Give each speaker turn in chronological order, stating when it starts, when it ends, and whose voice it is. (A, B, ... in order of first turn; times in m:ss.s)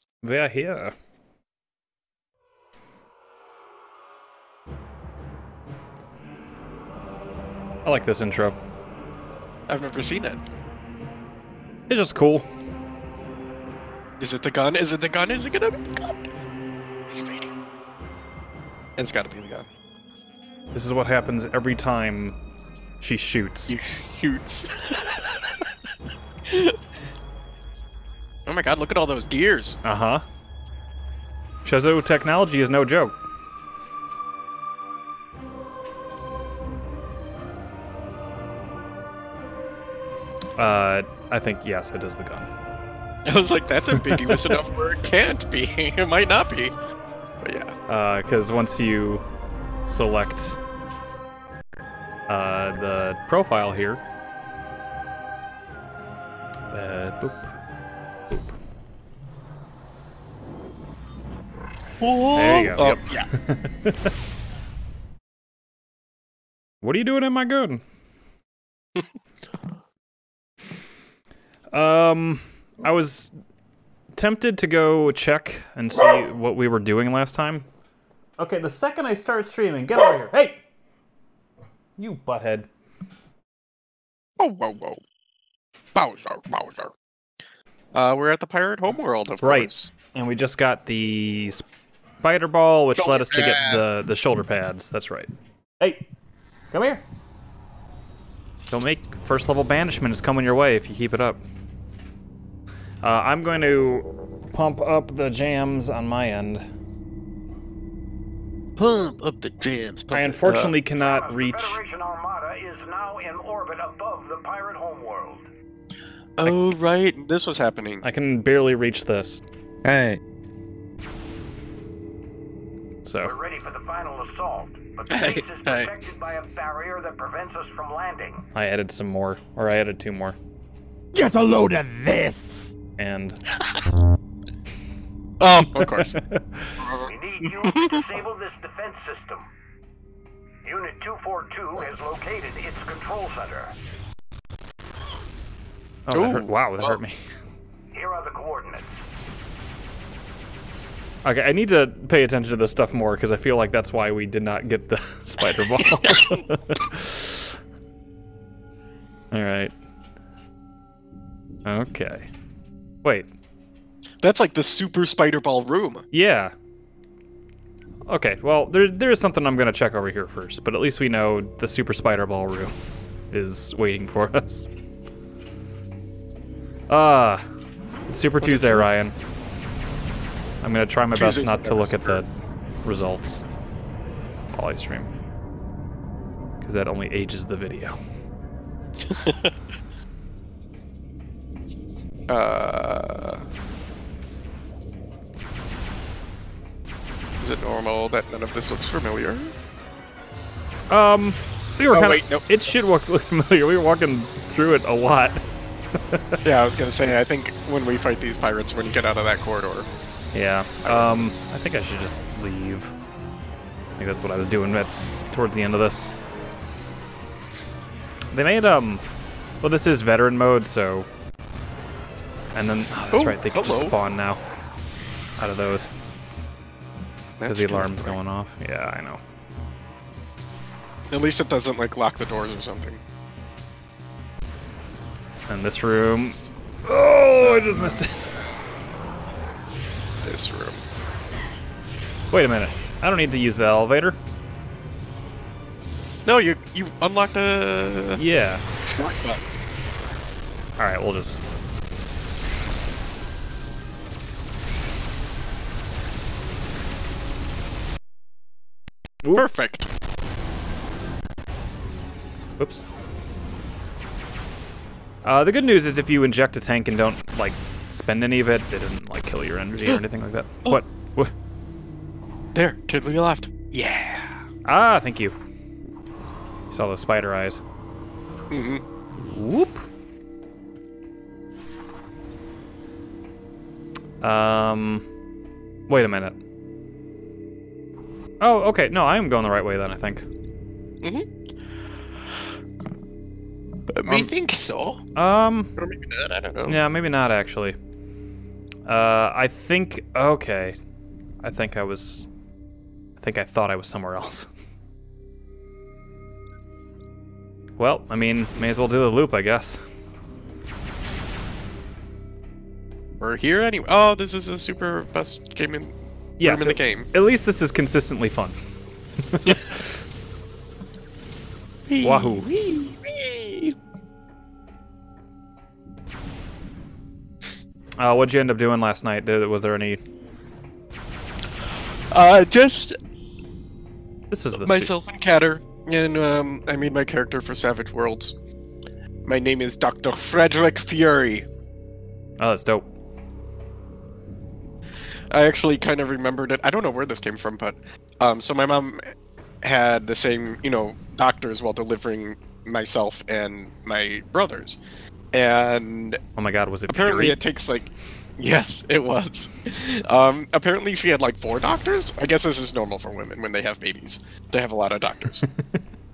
0:00.2-0:00.9 A
0:07.8-0:08.6 A
0:09.7-0:10.4 B
0:11.9-0:12.5 A
0:14.2-0:16.3 B
0:17.1-0:17.5 B
0:19.0-0:19.7 B
0:20.7-0:22.4 A
0:23.0-0:23.7 A
0:23.7-0:25.5 B
0:26.5-0:26.8 B
0:28.4-0:29.8 B
0:29.8-0:30.2 A
0:31.6-0:33.2 A
0:40.6-0:42.5 A
0:43.2-0:46.8 B
0:44.0-0:44.5 A
0:47.4-0:47.7 B
0:47.9-0:49.2 A
0:49.8-0:50.6 A
0:52.3-0:54.0 A
0:56.7-0:57.5 A
1:02.0-1:03.3 B
1:02.3-1:04.1 A
1:06.8-1:07.8 A
1:11.7-1:13.3 A
1:14.1-1:17.7 A
1:18.4-1:20.6 A
1:22.0-1:22.7 A
1:24.4-1:25.0 B
1:25.9-1:26.9 B
1:27.9-1:29.9 B
1:29.4-1:31.6 A
1:32.2-1:36.0 A
1:33.0-1:33.8 B
1:36.7-1:37.0 A
1:38.7-1:41.4 A
1:43.0-1:46.6 A
1:48.8-1:50.7 B
1:50.1-1:51.8 A
1:51.0-1:55.4 C
1:56.4-1:58.0 B
1:58.0-1:59.4 A
1:59.8-2:00.2 D
2:03.0-2:03.4 A
2:03.2-2:08.4 C
2:05.1-2:05.9 B
2:08.5-2:10.4 A
2:11.1-2:12.7 D
2:13.0-2:13.4 A
2:15.4-2:16.2 B
2:15.7-2:16.8 A
2:16.8-2:18.0 B
2:17.0-2:19.5 C
2:20.6-2:23.7 C
2:26.1-2:27.2 A
2:26.1-2:27.0 B
2:27.9-2:28.9 C
2:31.2-2:37.6 A
2:35.8-2:36.4 B
2:39.3-2:39.7 A
2:41.6-2:42.3 A
2:43.0-2:43.3 A
2:44.2-2:46.0 B
2:46.1-2:46.5 A
2:48.1-2:52.7 A
2:53.3-2:54.7 A
2:56.9-2:57.4 A
2:58.1-2:59.1 A
2:58.4-2:58.9 B
3:00.6-3:02.3 A
3:01.1-3:02.2 B
3:02.8-3:03.4 A
3:04.5-3:05.1 A
3:06.6-3:08.0 A
3:09.0-3:09.5 B
3:12.3-3:13.4 B
3:17.4-3:19.5 B
3:20.9-3:25.4 A
3:21.9-3:22.4 B
3:26.1-3:26.4 A
3:26.4-3:29.9 B
3:30.3-3:32.9 A
3:30.8-3:31.1 B
3:34.0-3:36.1 A
3:38.3-3:39.0 A
3:39.6-3:41.1 A
3:42.5-3:44.4 A
3:43.1-3:43.9 B
3:45.4-3:45.9 A
3:47.4-3:48.1 B
3:47.5-3:49.2 A
3:51.1-3:53.0 B
3:55.5-3:58.4 A
3:57.4-3:57.9 B
4:00.2-4:00.8 B
4:02.3-4:04.2 A
4:06.2-4:08.2 B
4:08.2-4:08.6 A
4:08.8-4:09.4 B
4:10.8-4:11.4 A
4:19.3-4:19.9 B
4:22.6-4:22.8 A
4:25.2-4:31.3 A
4:32.5-4:34.4 B
4:34.6-4:35.3 A
4:36.7-4:37.6 A
4:38.5-4:38.8 B
4:39.2-4:39.9 A
4:44.2-4:45.0 A
4:45.9-4:46.4 A
4:48.4-4:50.2 A
4:51.0-4:51.3 B
4:54.0-4:55.0 B
4:55.1-4:55.7 A
4:55.8-4:56.8 B
4:56.6-4:57.8 A
4:58.8-5:00.8 A
5:01.4-5:02.3 A
5:03.2-5:04.5 A
5:07.8-5:09.8 A
5:13.2-5:17.1 B
5:16.4-5:18.6 A
5:19.2-5:20.0 A
5:21.9-5:23.8 B
5:22.0-5:22.5 A
5:28.0-5:30.0 A
5:32.1-5:33.0 B
5:34.3-5:34.9 A
5:34.6-5:38.3 B
5:39.2-5:41.5 B
5:42.4-5:42.9 A
5:45.3-5:54.8 B
5:55.3-5:56.2 B
5:56.4-5:57.4 A
5:56.9-6:05.4 B